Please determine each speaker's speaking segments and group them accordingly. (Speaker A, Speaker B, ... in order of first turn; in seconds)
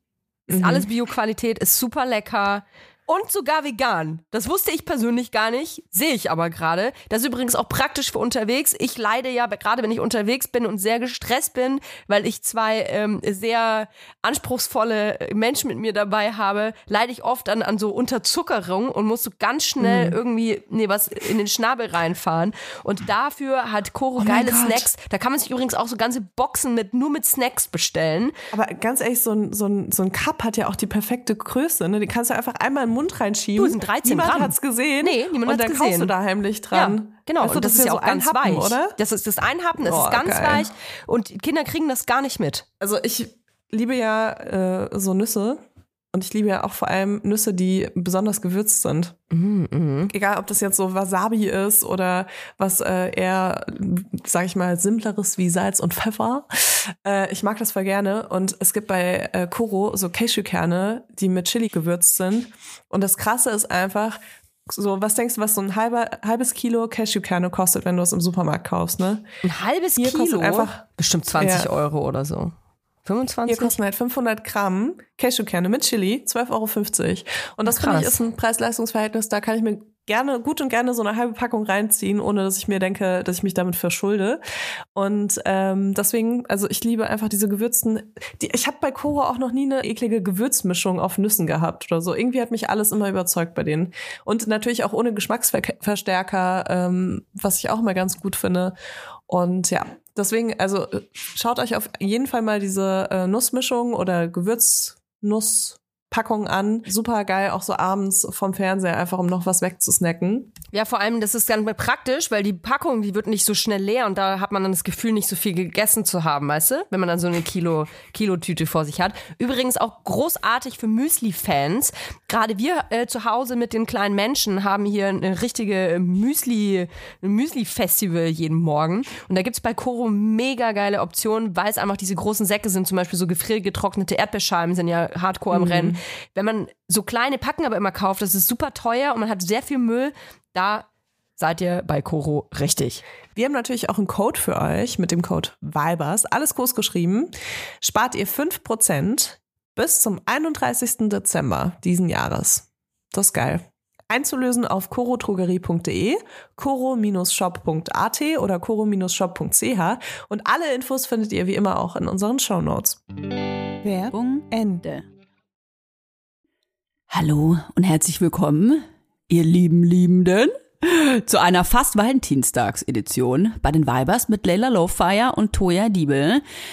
Speaker A: 0.5-0.9, 19.8-20.2, 24.2-24.9, 28.5-39.0, 39.8-40.7, 42.8-45.6, 46.1-49.2, 50.1-69.3, 70.0-70.8, 71.4-71.7, 73.5-84.4, 85.0-98.8, 99.3-110.5, 135.5-136.0, 143.4-163.0, 163.8-164.8
Speaker B: 0.5-28.3, 33.6-36.1, 36.7-42.7, 49.3-50.1, 69.4-72.5, 73.0-73.8, 77.7-78.2, 110.7-140.8, 141.4-143.0
Speaker C: 164.1-165.1, 167.1-176.4